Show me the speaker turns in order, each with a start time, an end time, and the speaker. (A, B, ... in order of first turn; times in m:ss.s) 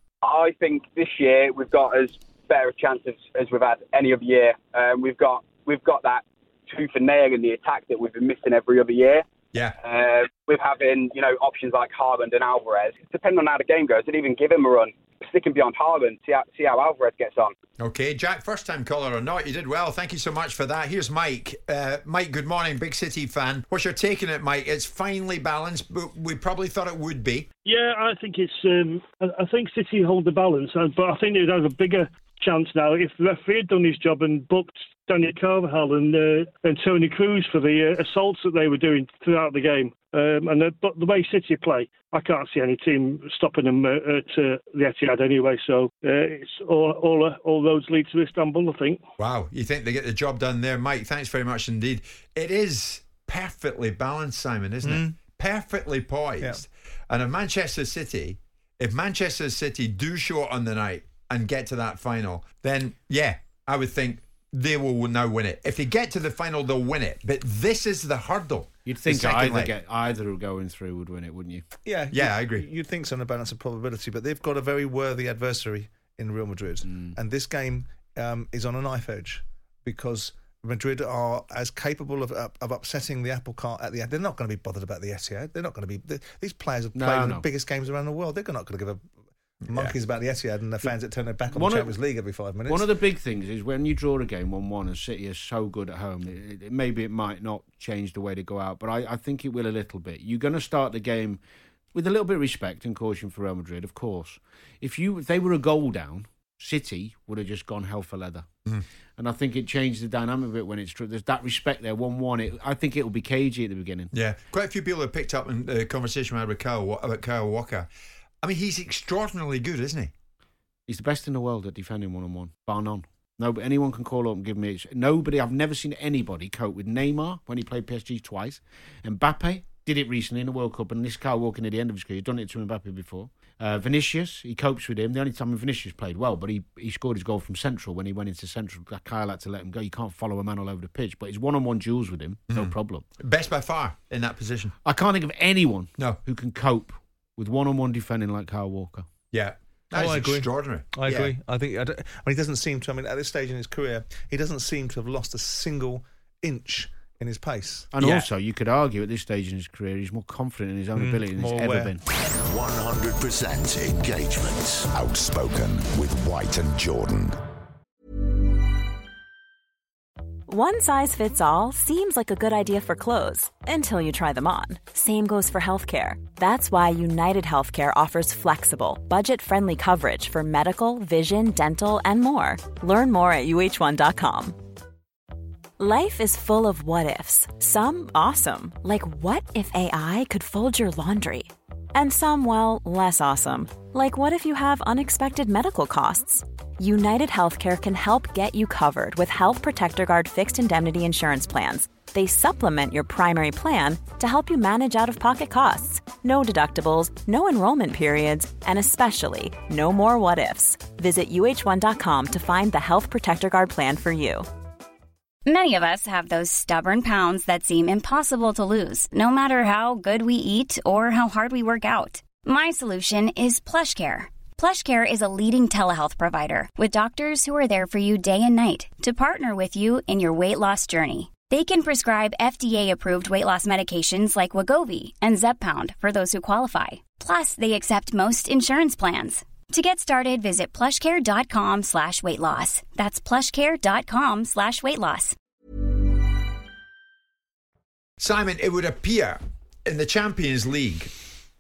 0:00.2-0:09.2 A
0:09.8-0:17.6 A
0:17.8-0:27.5 B
0:27.6-0:49.0 C
0:49.2-1:09.7 B
0:54.8-0:55.2 D
1:08.9-1:11.6 E
1:11.8-1:29.1 D
1:12.1-1:12.6 B
1:16.9-1:17.2 E
1:27.0-1:27.4 E
1:29.6-1:29.9 B
1:29.7-1:32.9 D
1:31.5-1:32.0 E
1:32.7-1:41.4 E
1:41.9-1:48.5 E
1:49.2-1:54.1 E
1:54.1-1:57.9 B
1:58.4-2:00.1 B
2:00.9-2:23.0 E
2:22.5-2:24.8 B
2:24.8-2:29.1 E
2:29.3-2:31.3 B
2:29.9-2:37.9 D
2:37.9-2:42.0 E
2:41.0-2:42.0 D
2:42.4-2:44.9 F
2:44.9-2:47.4 G
2:50.5-3:04.6 H
3:05.8-3:34.5 H
3:35.5-4:05.4 I
4:08.2-4:11.1 B